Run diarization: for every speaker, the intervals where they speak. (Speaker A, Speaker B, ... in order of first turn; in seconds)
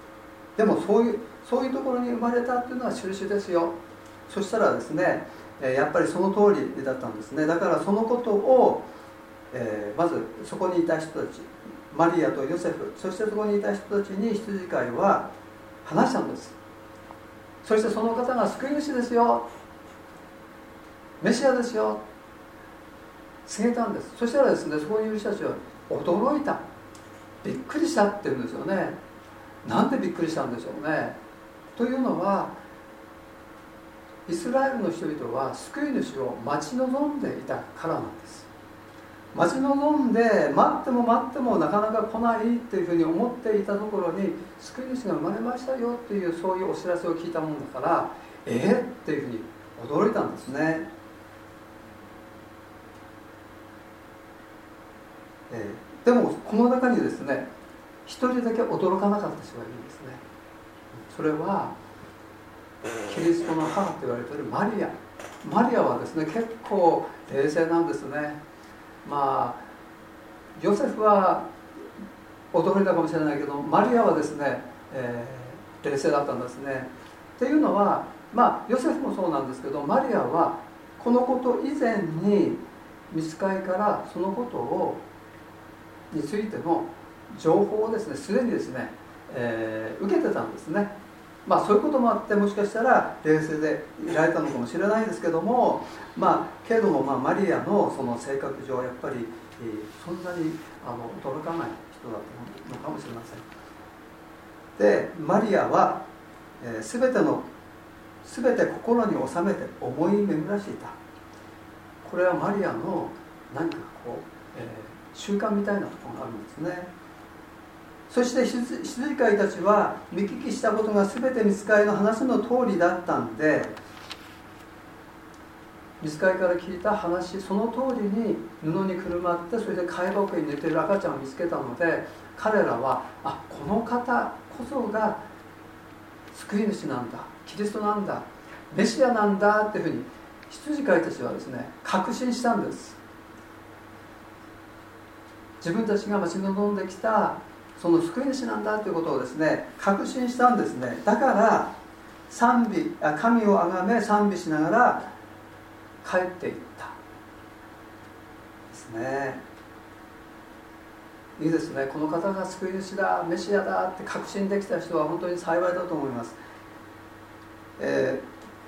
Speaker A: 0.6-3.8, 4.3-8.9, 9.5-15.3, 15.8-16.6, 17.6-19.5, 21.2-22.0, 23.4-26.6, 27.4-29.0, 29.6-31.2, 31.7-32.6, 34.2-38.5, 39.3-50.9, 55.5-57.5, 58.0-60.2, 61.0-61.8, 63.0-68.4, 69.0-69.7, 70.5-71.5, 72.5-85.0, 86.1-90.9, 91.4-103.5, 104.8-106.0, 106.6-107.5, 108.2-111.0, 112.0-116.9, 118.1-123.8, 126.0-135.2, 136.3-143.0, 145.6-151.8, 152.3-155.1, 156.0-157.0, 158.7-159.4, 161.4-166.4, 167.8-168.3